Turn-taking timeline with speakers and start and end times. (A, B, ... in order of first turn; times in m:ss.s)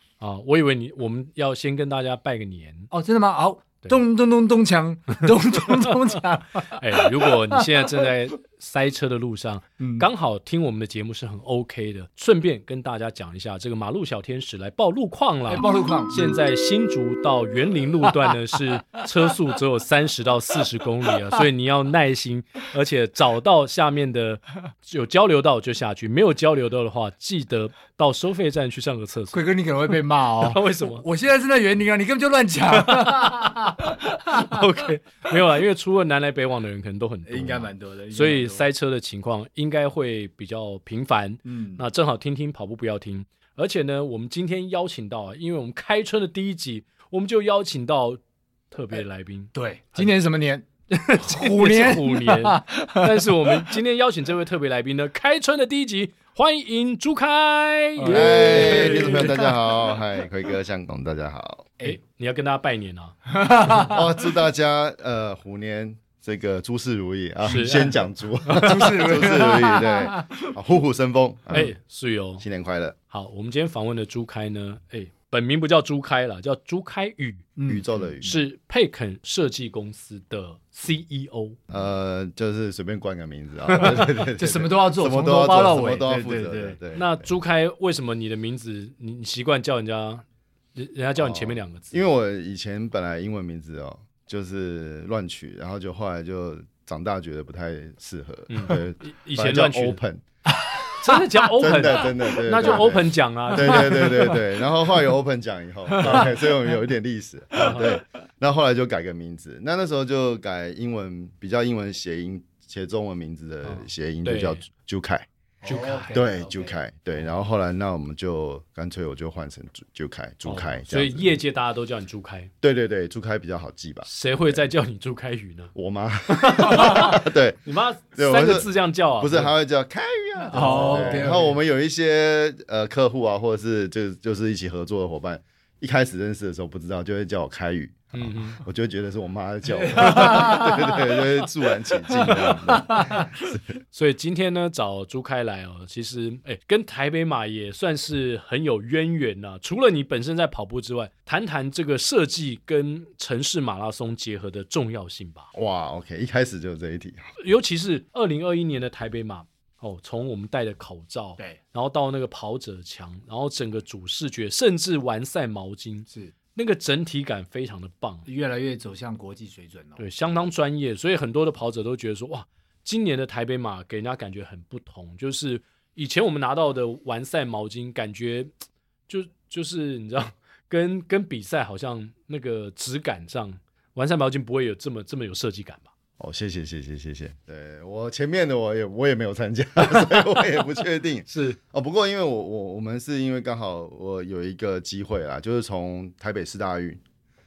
0:00.2-0:02.9 A
0:02.9-0:07.8 B
0:05.5-0:05.9 A
0:06.7-0:29.4 A
0:09.8-0:10.1 B
0:15.5-0:16.4 B
0:29.3-0:34.6 B
0:30.4-0:31.0 A
0:32.7-0:48.2 A
0:37.3-0:38.6 B
0:41.4-0:41.8 B
0:48.7-0:50.1 A
0:49.6-0:53.8 B
0:51.1-0:59.3 A
0:58.0-0:59.5 B
0:58.1-1:01.7 C
1:01.8-1:03.2 A
1:03.3-1:04.0 B
1:03.7-1:11.7 C
1:07.4-1:08.0 A
1:08.5-1:10.4 B
1:08.6-1:08.9 A
1:11.5-1:12.4 A
1:12.4-1:13.0 C
1:13.1-1:17.5 A
1:17.6-1:18.3 B
1:17.7-1:18.4 C
1:18.2-1:21.6 A
1:21.7-1:27.3 C
1:24.1-1:26.8 B
1:26.9-1:30.2 A
1:30.8-1:32.0 A
1:31.2-1:40.2 C
1:38.5-1:40.0 A
1:41.0-1:44.2 A
1:41.6-1:55.3 C
1:43.7-1:44.4 B
1:45.9-1:46.2 B
1:47.6-1:48.0 A
1:53.6-1:54.6 A
1:55.6-1:56.7 B
1:55.6-1:56.2 A
1:56.1-2:01.4 C
2:00.4-2:02.5 A
2:02.6-2:04.6 C
2:04.1-2:05.7 A
2:05.8-2:07.6 C
2:06.3-2:09.5 A
2:08.2-2:23.6 C
2:10.5-2:11.5 B
2:10.5-2:11.4 A
2:18.1-2:18.6 A
2:19.8-2:21.0 B
2:20.0-2:20.4 A
2:22.8-2:23.3 B
2:23.9-2:35.5 A
2:35.5-2:37.3 C
2:37.4-2:48.3 A
2:48.3-2:50.1 B
2:50.0-2:58.5 A
2:59.1-3:05.9 A
3:06.2-3:17.0 C
3:11.3-3:11.6 A